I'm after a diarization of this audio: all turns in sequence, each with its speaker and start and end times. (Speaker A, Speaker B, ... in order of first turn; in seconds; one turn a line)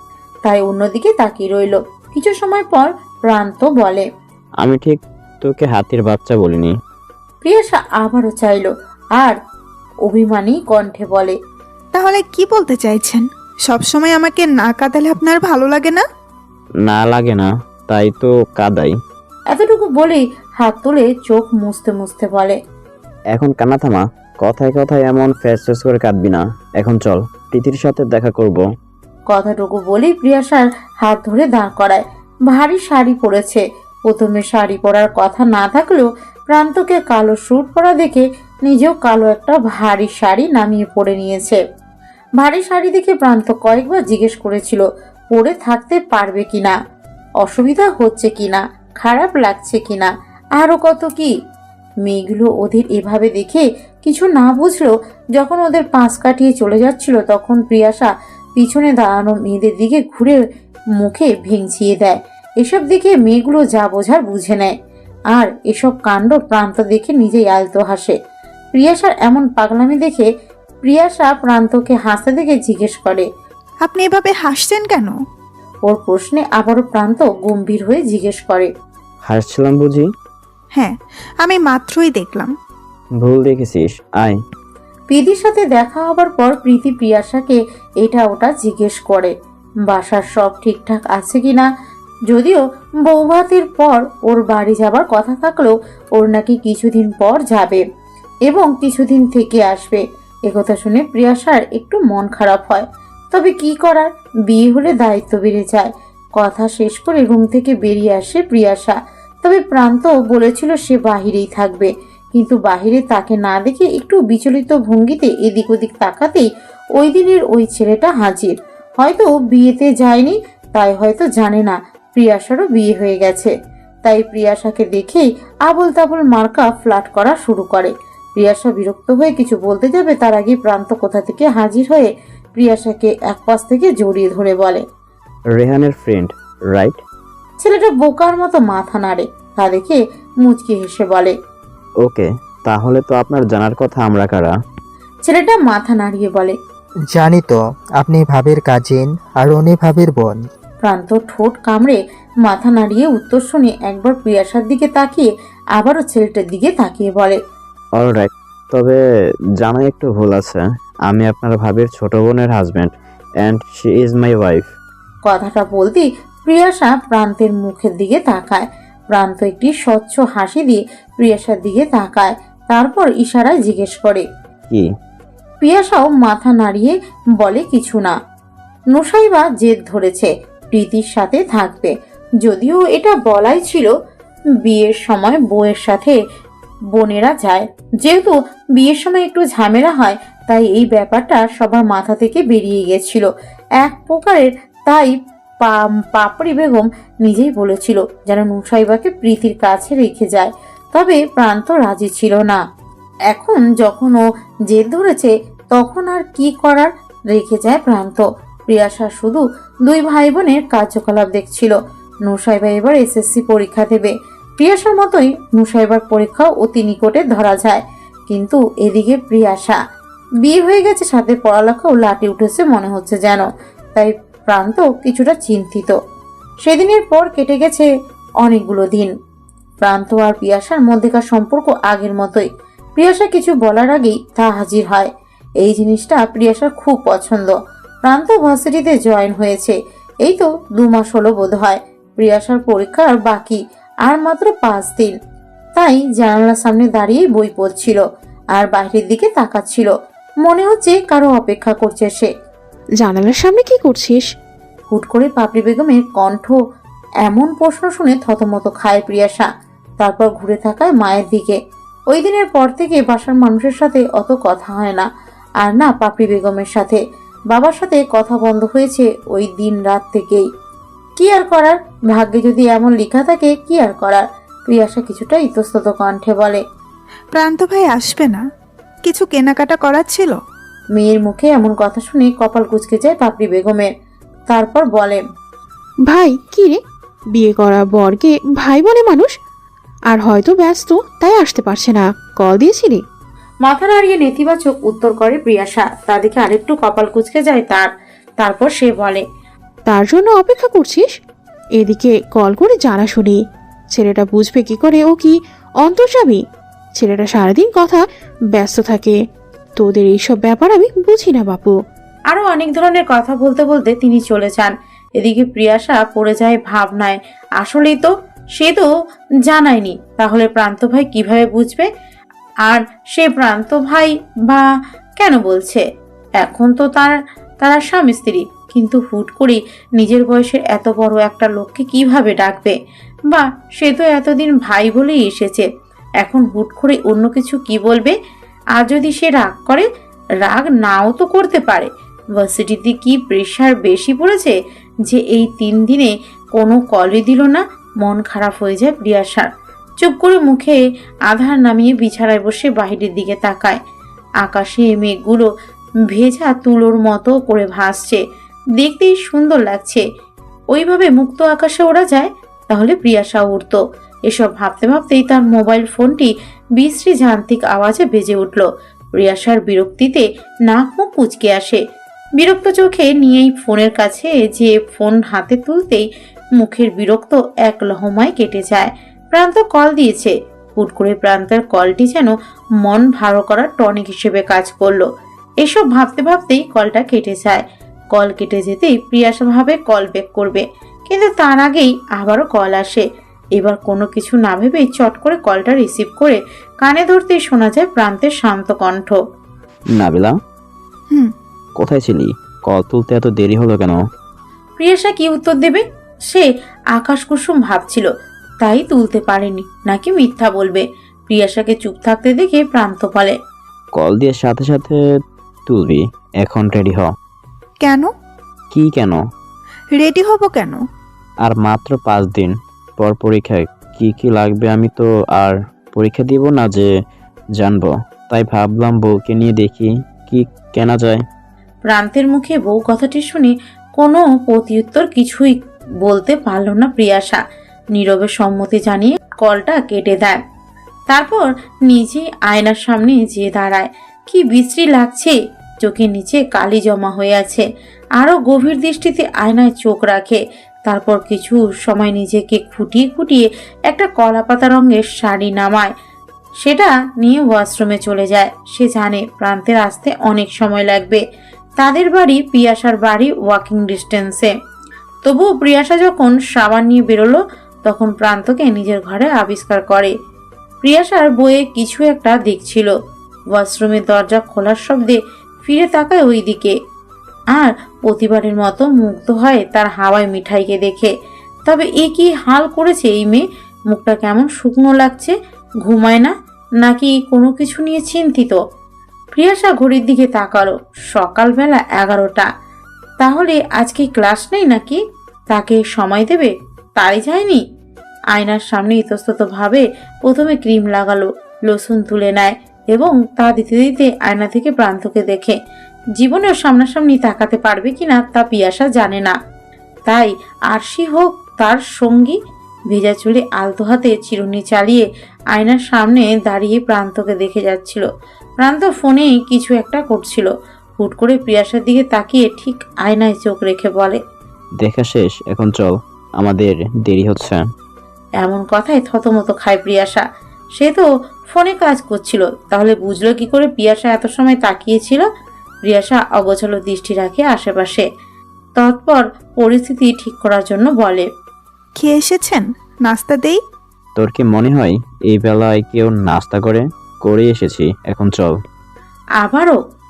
Speaker A: 0.4-4.0
Speaker B: 4.6-6.7
Speaker A: 7.4-9.3
Speaker A: 10.1-11.3
Speaker C: 11.9-16.0
Speaker B: 16.9-18.9
Speaker A: 19.5-22.6
Speaker B: 23.3-28.6
Speaker A: 29.3-41.6
Speaker A: 42.4-46.7
Speaker A: 47.4-51.3
Speaker A: 52.0-60.4
Speaker A: 61.0-64.7
Speaker A: 65.3-68.1
Speaker A: 68.7-70.3
Speaker A: 70.8-73.3
Speaker C: 73.8-75.1
Speaker A: 75.9-78.7
Speaker B: 79.2-80.1
Speaker C: 80.7-82.5
Speaker B: 83.2-84.4
Speaker A: 85.1-89.3
Speaker A: 89.9-91.7
Speaker A: 92.3-97.8
Speaker A: 98.5-116.5
Speaker A: 117.0-123.5
Speaker A: 124.0-134.8
Speaker B: 135.5-137.0
Speaker A: 137.6-141.3
Speaker B: 142.0-144.5
Speaker A: 145.2-146.5
Speaker D: 147.1-150.4
Speaker A: 150.8-157.4
Speaker B: 158.0-159.0
Speaker B: 159.6-164.7
Speaker A: 165.2-174.2
Speaker A: 175.6-178.1
Speaker A: 178.9-181.9
Speaker A: 182.4-183.9
Speaker A: 184.6-186.2
Speaker A: 186.9-193.3
Speaker A: 193.8-202.6
Speaker A: 203.3-219.8
Speaker A: 220.4-225.9
Speaker A: 226.6-227.9
Speaker A: 228.4-229.1
Speaker A: 229.8-235.1
Speaker A: 235.6-237.5
Speaker A: 238.0-245.1
Speaker A: 245.8-248.0
Speaker A: 248.6-249.9
Speaker A: 250.4-252.3
Speaker E: 253.0-254.3
Speaker A: 254.9-256.6
Speaker A: 257.2-259.5
Speaker A: 260.0-261.6
Speaker A: 262.1-265.1
Speaker A: 265.6-267.0
Speaker A: 267.5-270.4
Speaker A: 271.2-276.6
Speaker C: 277.3-278.4
Speaker C: 279.0-280.4
Speaker A: 280.9-283.9
Speaker A: 284.5-285.2
Speaker E: 286.0-289.4
Speaker E: 290.1-293.0
Speaker A: 293.6-297.9
Speaker A: 298.4-299.2
Speaker E: 299.9-301.2
Speaker E: 301.8-309.2
Speaker E: 309.8-311.8
Speaker A: 312.3-318.9
Speaker A: 319.5-321.9
Speaker A: 322.7-324.6
Speaker A: 325.2-325.8
Speaker A: 326.4-332.7
Speaker A: 333.3-335.6
Speaker A: 336.2-338.1
Speaker A: 338.8-339.9
Speaker A: 340.4-344.5
Speaker A: 345.1-349.5
Speaker A: 350.0-353.8
Speaker A: 354.4-355.5
Speaker A: 356.1-358.2
Speaker A: 358.8-360.0
Speaker A: 360.7-368.6
Speaker A: 369.2-371.8
Speaker A: 372.4-376.1
Speaker A: 376.6-385.1
Speaker A: 385.6-387.6
Speaker A: 388.1-393.0
Speaker A: 393.6-399.2
Speaker B: 399.9-400.3
Speaker B: 401.8-404.0
Speaker A: 404.8-408.1
Speaker A: 408.6-413.4
Speaker B: 414.0-414.9
Speaker B: 415.7-417.1
Speaker C: 417.8-418.1
Speaker B: 418.7-419.2
Speaker C: 419.9-420.8
Speaker B: 421.4-426.9
Speaker B: 427.6-431.2
Speaker A: 431.9-437.4
Speaker A: 437.9-440.4
Speaker A: 441.1-447.6
Speaker A: 448.2-455.9
Speaker A: 456.6-461.2
Speaker A: 461.8-464.5
Speaker A: 465.2-470.1
Speaker A: 470.8-472.9
Speaker A: 473.5-476.7
Speaker A: 477.5-481.1
Speaker A: 481.7-485.3
Speaker A: 485.9-488.6
Speaker A: 489.3-492.5
Speaker A: 493.2-495.0
Speaker A: 495.5-497.6
Speaker A: 498.3-505.5
Speaker A: 506.2-509.3
Speaker A: 510.1-512.4
Speaker A: 512.9-518.0
Speaker A: 518.6-520.5
Speaker A: 521.0-524.2
Speaker B: 524.8-527.6
Speaker A: 528.4-530.2
Speaker A: 530.8-535.2
Speaker A: 535.9-538.0
Speaker A: 538.8-541.2
Speaker C: 542.0-543.6
Speaker B: 544.1-548.5
Speaker A: 549.4-549.8